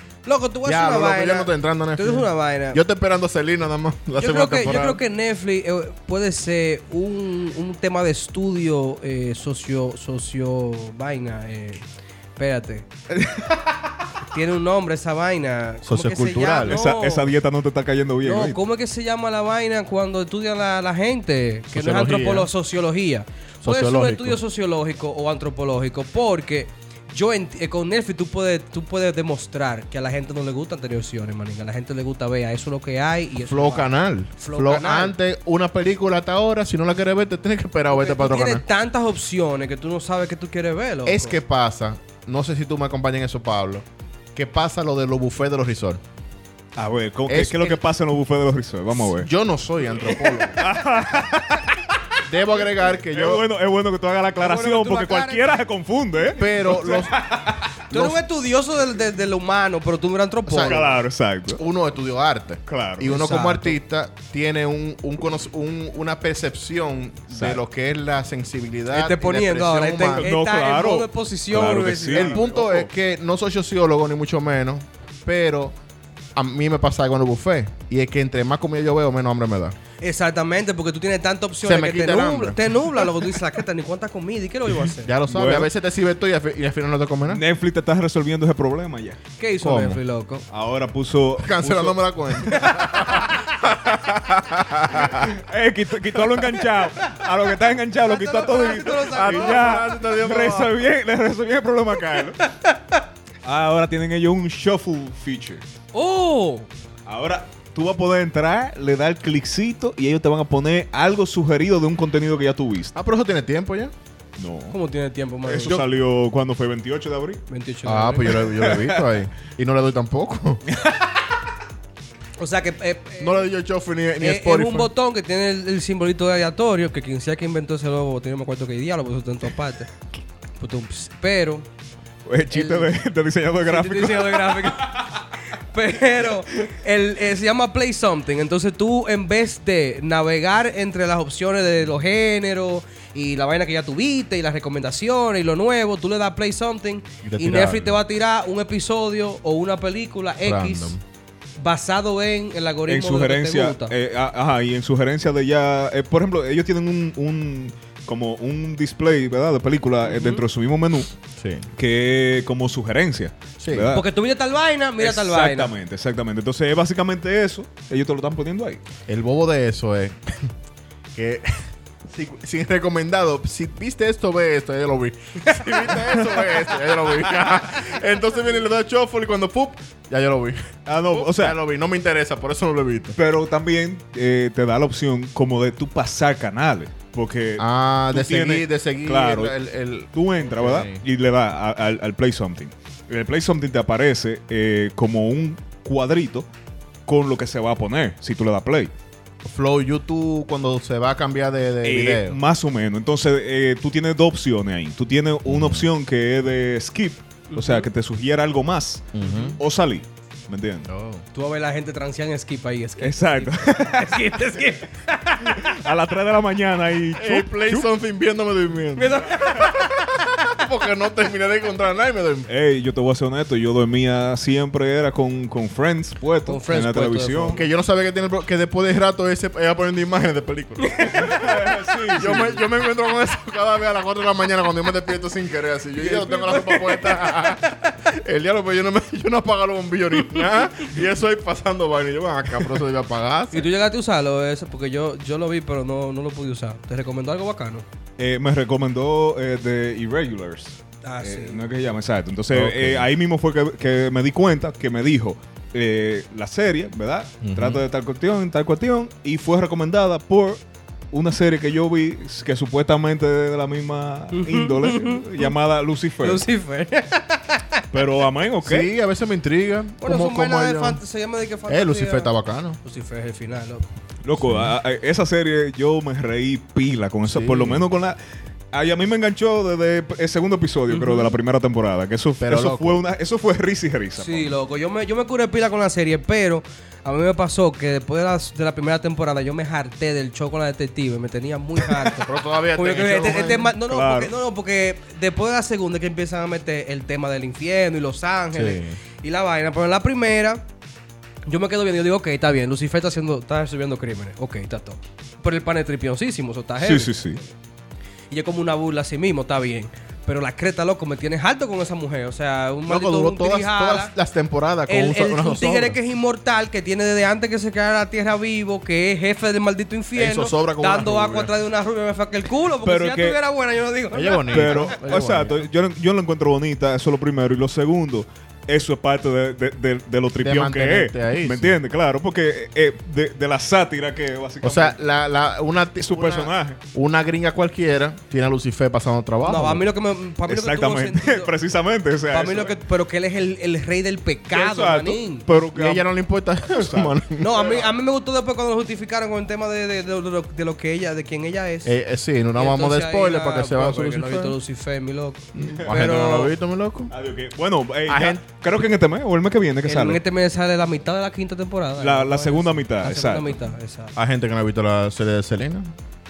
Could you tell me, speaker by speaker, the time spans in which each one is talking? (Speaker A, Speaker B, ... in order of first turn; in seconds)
Speaker A: 0.2-2.8, 4.2-11.8, 12.4-12.9, 14.3-17.3, 18.2-35.1, 37.9-41.4, 54.4-55.5, 57.9-60.9, 63.1-63.8, 68.9-72.5, 80.0-85.1, 89.4-90.5, 92.4-93.3, 96.3-96.6, 98.0-99.9, 102.7-103.0, 105.9-106.7, 114.7-115.8, 117.5-118.6, 120.8-121.1, 122.4-123.5, 124.2-129.9, 130.6-131.7, 132.5-132.9, 133.6-151.0, 151.6-153.9, 160.1-160.4, 163.9-165.7, 207.5-207.9, 211.3-215.8, 219.0-220.0, 226.5-227.6, 230.8-231.3, 236.0-238.0, 243.5-247.8, 251.0-251.6, 264.3-265.5, 266.2-267.8, 270.0-272.3, 272.8-273.9, 280.9-281.4, 284.2-300.6, 301.5-307.5, 308.3-314.1, 314.9-325.0, 339.4-341.5, 342.3-345.5, 347.4-352.0, 352.6-356.5, 359.9-364.1
Speaker B: 0.7-5.0, 15.8-16.8, 21.7-22.5, 23.6-24.4, 33.4-38.6, 41.1-46.0, 47.3-47.8, 49.0-50.6, 52.3-53.4, 56.3-57.2, 57.9-58.2, 60.5-60.9, 61.6-70.3, 72.1-75.8, 76.4-79.8, 81.6-82.6, 85.0-87.4, 89.6-90.0, 91.4-95.3, 99.1-100.8, 113.0-113.9, 117.8-120.6, 123.2-124.9, 147.2-148.0, 150.4-151.0, 161.4-161.7, 163.6-163.9, 169.1-170.5, 171.2-171.5, 172.1-183.2, 187.6-191.0, 199.4-202.4, 205.5-205.9, 209.1-209.6, 210.9-211.2, 217.2-222.5, 227.5-231.4, 232.1-243.7, 252.5-253.1, 257.4-257.8, 268.6-271.0, 271.7-272.8, 274.4-274.7, 277.3-277.9, 282.4-283.0, 292.2-293.7, 298.5-299.0, 312.9-316.0, 320.1-321.5, 324.1-325.6, 330.4-331.8, 334.6-339.8, 345.8-347.6, 351.9-354.6, 355.6-357.1, 358.1-358.4, 364.2-365.9
Speaker C: 13.1-13.6, 16.6-18.6, 46.8-49.3, 50.5-51.9, 53.0-57.7, 60.6-61.6, 62.7-63.5, 67.3-67.6, 70.2-72.9, 85.3-85.7, 87.3-89.2, 90.5-92.0, 95.1-102.4, 103.4-105.6, 107.1-113.0, 114.4-114.8, 115.5-117.4, 118.4-119.0, 132.3-135.0, 152.9-161.1, 161.8-164.1, 165.0-168.8, 180.9-181.6, 183.2-189.5, 190.1-196.5, 197.1-198.9, 201.8-210.9, 213.0-214.2, 215.4-217.9, 222.5-227.6, 231.1-232.6, 248.2-266.4, 267.9-268.9, 274.2-278.2, 278.7-284.5, 293.8-294.3, 306.8-307.4, 322.8-323.4, 324.5-335.0, 336.0-336.8, 340.5-342.8, 344.5-346.1, 346.7-347.9, 355.6-356.2, 357.1-360.2, 362.0-363.6